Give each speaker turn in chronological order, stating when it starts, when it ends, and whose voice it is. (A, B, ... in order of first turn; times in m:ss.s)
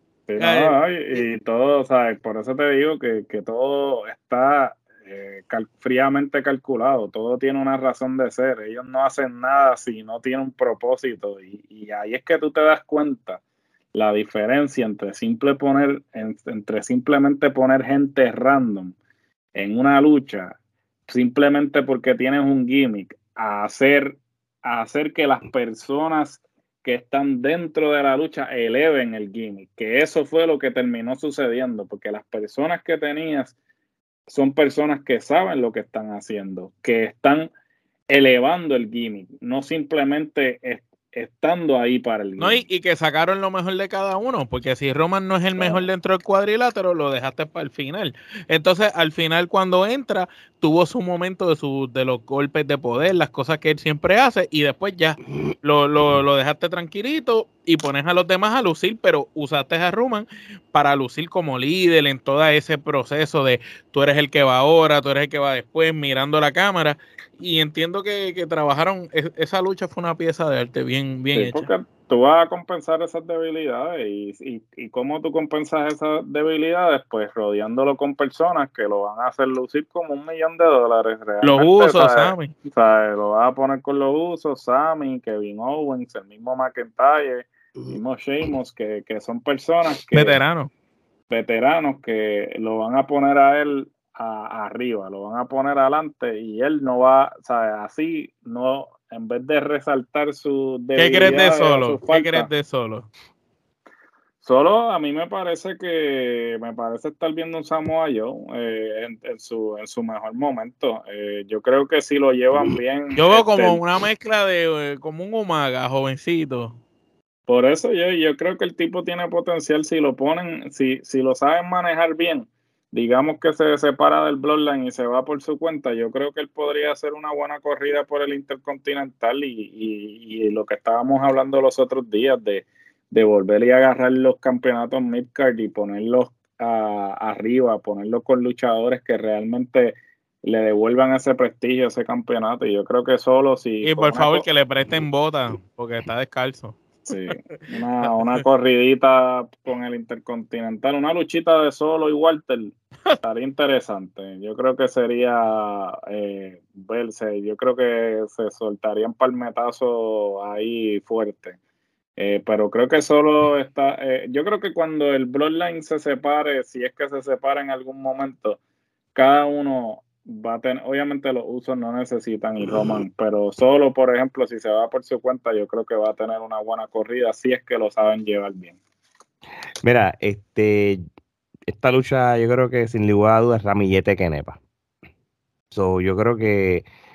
0:00.3-0:13.4 A
0:00.4-0:01.2 B
0:13.9-0:19.0 A
0:19.5-0:20.6 A
0:21.1-0:33.5 A
0:34.3-0:37.5 A
0:38.1-0:42.6 A
0:42.4-1:11.7 B
0:45.6-0:45.8 A
1:11.3-1:30.4 A
1:21.4-1:22.5 B
1:30.1-1:30.7 B
1:31.3-1:42.5 A
1:41.0-1:43.1 B
1:44.4-1:53.8 A
1:53.2-1:56.8 B
1:57.5-2:24.4 A
2:23.8-2:27.1 B
2:27.1-2:41.6 A
2:42.2-2:48.6 A
2:49.1-2:58.8 A
2:59.8-3:01.0 C
3:01.7-3:04.6 C
3:05.7-3:06.8 C